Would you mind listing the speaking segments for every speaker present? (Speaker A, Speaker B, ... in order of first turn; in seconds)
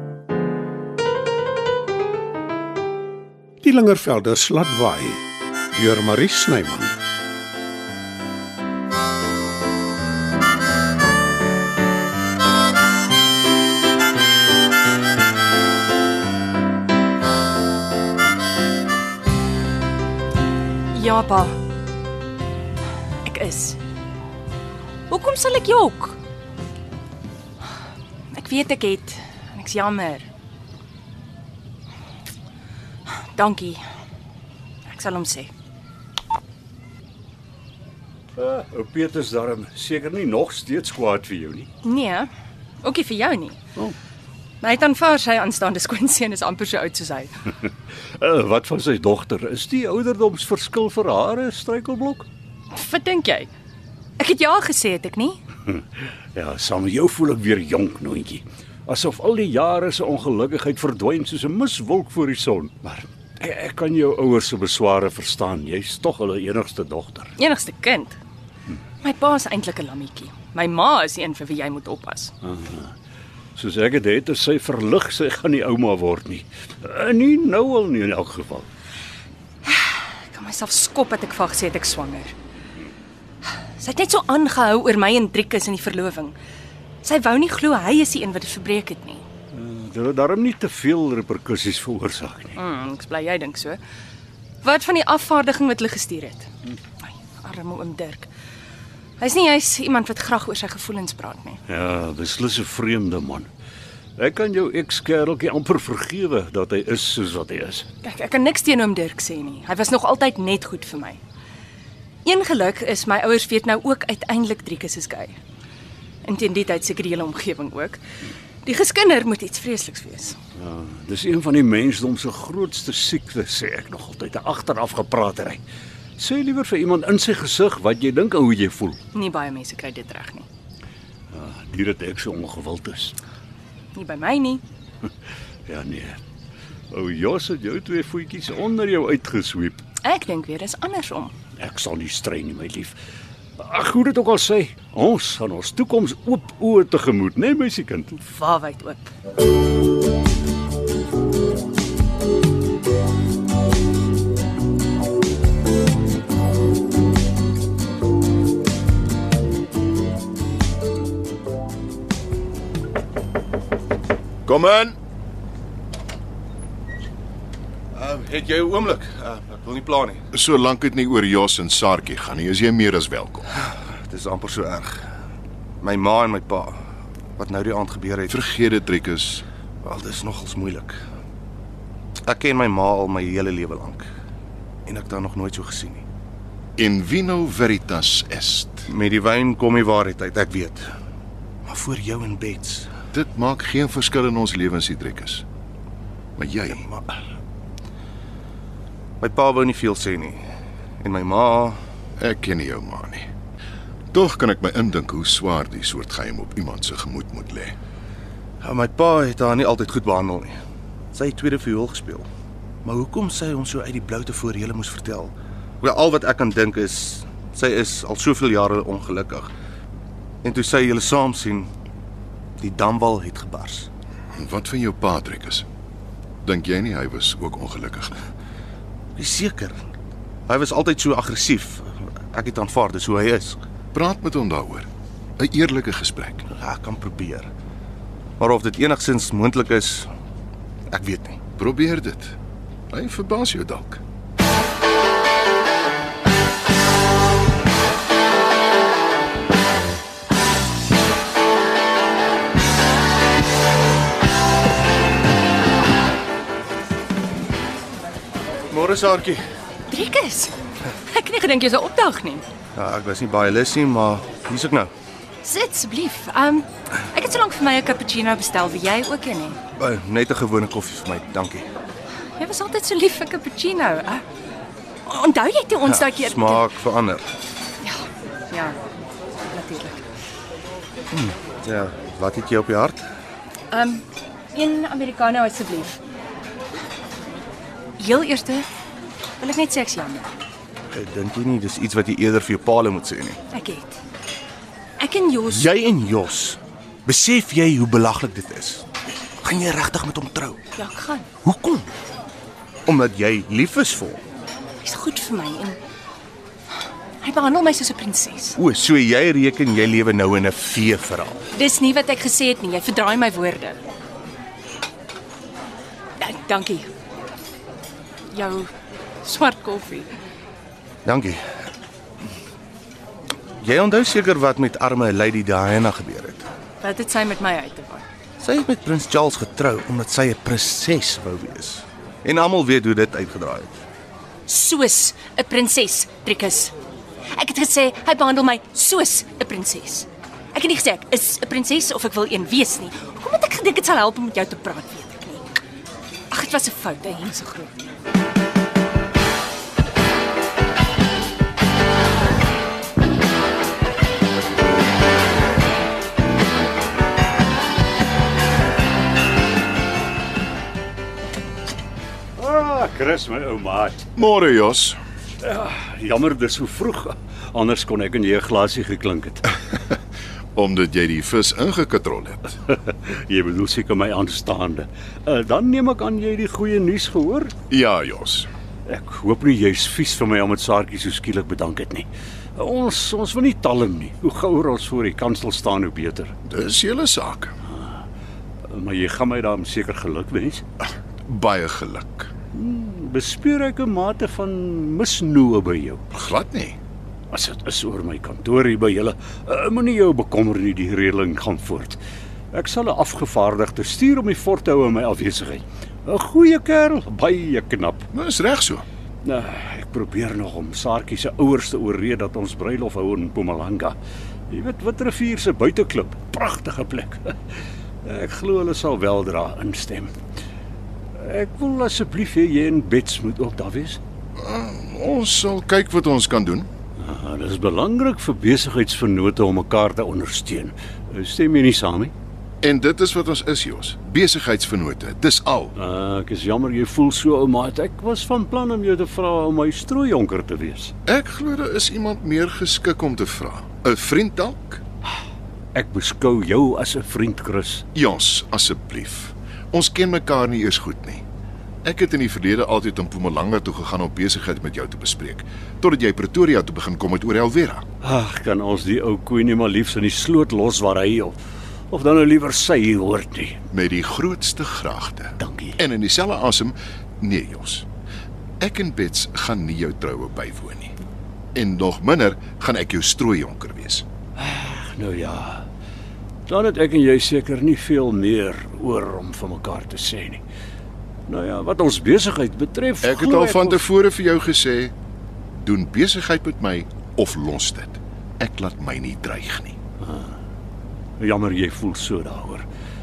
Speaker A: 3.6-6.9
Speaker B: 20.9-21.5, 23.2-23.8, 25.1-26.2, 28.3-30.3, 33.4-33.8, 34.9-35.5, 41.8-42.3, 42.8-43.6, 44.6-47.3, 52.7-53.5, 54.2-55.4, 67.4-68.2, 69.0-72.3, 79.7-82.3, 83.8-86.4, 87.0-89.2, 92.6-93.8, 94.6-96.5, 97.1-98.3, 99.2-101.6, 108.0-111.2, 112.2-115.4, 116.2-118.0, 118.7-120.4, 129.1-130.5, 133.9-134.6, 140.0-141.3, 148.1-149.1, 259.9-260.5, 261.1-262.4, 265.4-269.6, 272.4-274.2, 275.1-276.7, 277.8-278.8, 279.5-280.1, 283.7-284.0, 284.6-286.0, 288.0-288.7, 289.4-290.3, 293.5-293.9, 295.0-295.7, 300.8-301.3, 304.8-305.8, 307.2-308.6, 311.5-313.8, 316.2-316.9, 318.3-318.7, 319.2-320.1, 326.8-328.0, 334.5-336.7, 337.3-345.6, 346.3-347.8
Speaker C: 38.4-41.7, 48.2-52.3, 56.4-67.3, 72.4-72.9, 73.6-78.7, 89.5-92.6, 101.7-103.5, 104.2-107.9, 120.6-125.6, 126.2-129.0, 131.3-133.2, 135.7-136.2, 136.9-139.8, 141.6-143.0, 143.6-148.1, 362.4-364.0, 365.4-369.5, 372.7-377.5, 378.9-386.4, 387.7-388.0, 388.7-390.6, 392.5-396.0, 397.3-402.0, 402.5-408.1, 409.2-414.0, 414.5-417.3, 418.0-420.1, 421.2-424.0, 427.0-432.1, 435.8-440.9, 445.8-447.9, 458.0-461.4, 461.9-463.6, 465.4-465.8, 474.4-475.6, 476.5-480.4, 481.3-483.8, 490.0-490.3, 491.2-492.7
Speaker D: 164.4-165.0, 170.3-173.5, 178.3-179.4, 186.8-188.9, 193.1-195.4, 196.4-196.9, 202.2-203.3, 204.1-207.7, 224.3-225.7, 226.4-228.2, 233.9-234.9, 235.4-236.4, 241.6-242.3, 242.9-244.0, 364.2-365.0, 370.6-372.6, 377.7-378.5, 386.5-387.6, 391.3-392.3, 396.1-396.8, 408.1-408.9, 424.4-426.7, 432.6-435.8, 441.1-444.8, 447.9-451.2, 451.8-457.9, 463.7-467.9, 468.6-470.9, 471.6-474.1, 483.0-484.9, 485.5-489.8
Speaker E: 167.9-170.2, 173.7-175.1, 175.8-176.8, 177.4-178.3, 179.8-181.0, 182.2-184.1, 184.9-186.1, 188.9-190.9, 191.7-192.9, 196.8-197.1, 199.2-200.4, 201.0-201.8, 208.6-210.6, 211.1-212.3, 212.8-219.5, 220.4-221.7, 222.6-223.9, 229.2-229.8, 230.5-233.6, 236.5-237.5, 238.4-240.1, 240.9-241.4, 258.7-259.4, 262.8-264.9, 269.8-271.7, 275.9-277.3, 281.1-283.1, 290.9-293.4, 295.5-298.9, 299.4-300.6, 301.4-301.9, 302.9-304.2, 308.6-311.4, 321.1-321.4, 323.6-326.5, 328.4-333.8